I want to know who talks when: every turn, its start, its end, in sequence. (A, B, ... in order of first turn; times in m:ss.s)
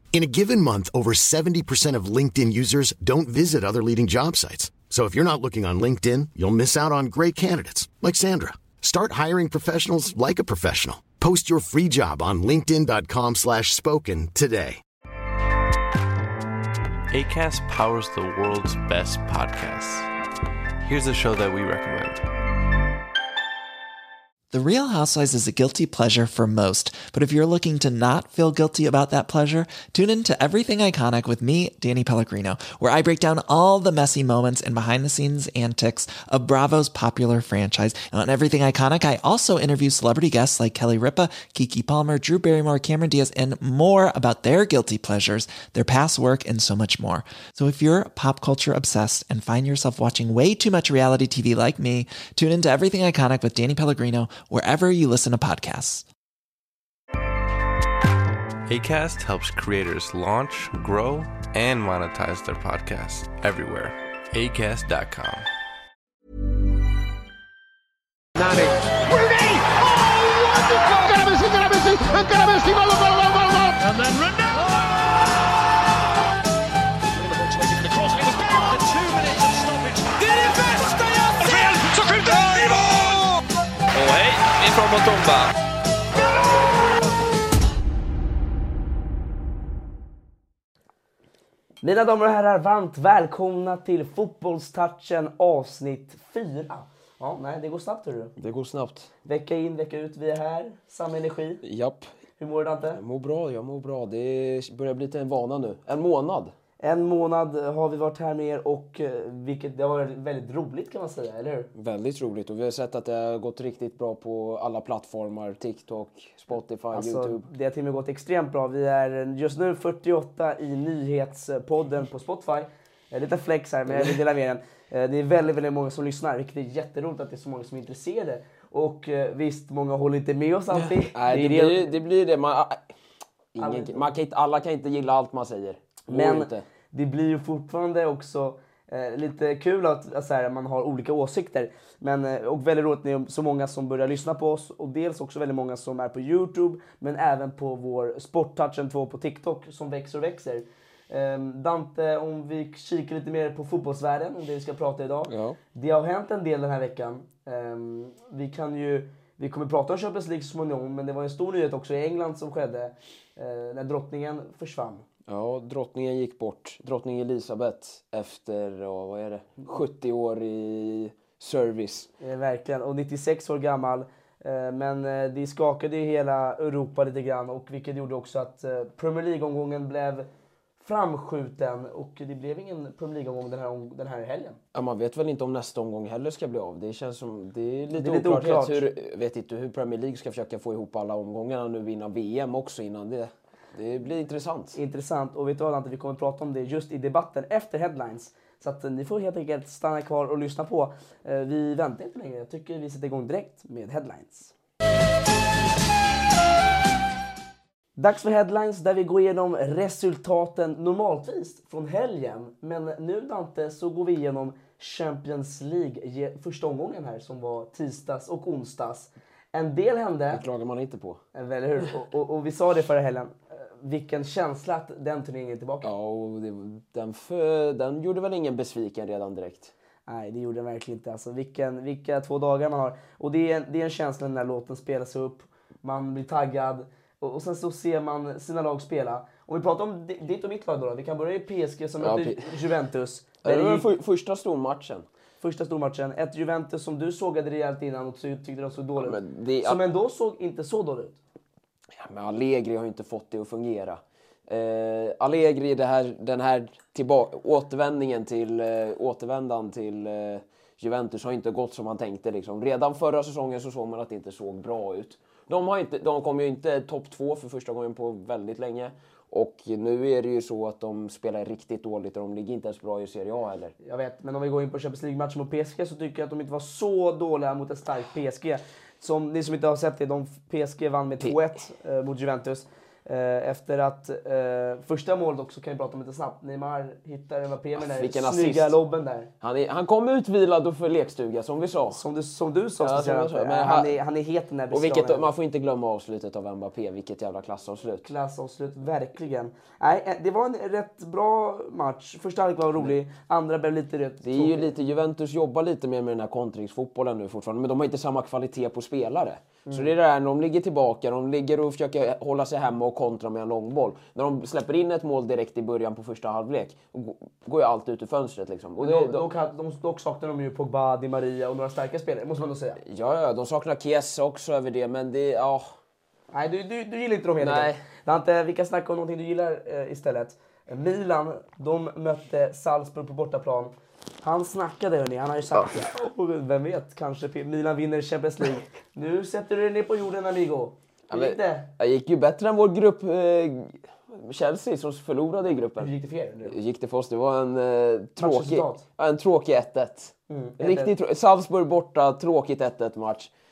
0:00.1-0:14.8 A
0:17.1-0:20.1 B
0:20.8-0:22.2 B
0:24.5-0:56.0 C
0:58.7-1:05.5 B
1:08.4-1:16.3 D
1:17.1-1:23.4 D
1:24.0-1:25.5 E
1:31.8-1:38.3 F
1:38.4-1:39.1 E
1:39.3-1:41.6 F
1:41.6-1:42.1 E
1:42.4-1:43.0 F
1:43.0-1:46.5 E
1:46.8-1:51.7 F
1:51.8-1:57.4 E
1:56.9-2:11.9 F
2:03.9-2:04.2 E
2:10.7-2:12.8 E
2:13.5-2:16.7 E
2:13.6-2:14.0 F
2:16.1-2:45.0 F
2:35.3-2:35.6 E
2:45.3-2:52.1 E
2:52.2-3:00.3 F
3:00.8-3:04.6 F
3:04.7-3:14.8 E
3:07.9-3:08.8 F
3:14.8-3:24.5 F
3:28.0-3:40.4 F
3:40.3-3:41.2 E
3:41.4-3:45.9 F
3:45.8-3:49.7 E
3:50.1-4:03.9 F
4:02.0-4:02.5 E
4:03.4-4:05.1 E
4:05.4-4:11.2 F
4:09.0-4:09.8 E
4:12.0-4:33.7 E
4:33.8-4:49.3 F
4:47.8-4:48.8 E
4:49.4-4:52.0 E
4:51.9-4:55.3 F
4:52.8-4:54.0 E
4:54.7-4:58.1 E
4:58.0-5:04.7 F
5:04.2-5:19.2 E
5:09.7-5:09.9 F
5:18.8-5:22.8 F
5:22.8-5:25.7 E
5:26.3-5:41.7 F
5:27.4-5:27.8 E
5:41.1-5:45.9 E
5:45.8-5:46.6 F
5:46.5-5:53.3 E
5:48.2-5:48.8 F
5:50.3-5:50.9 F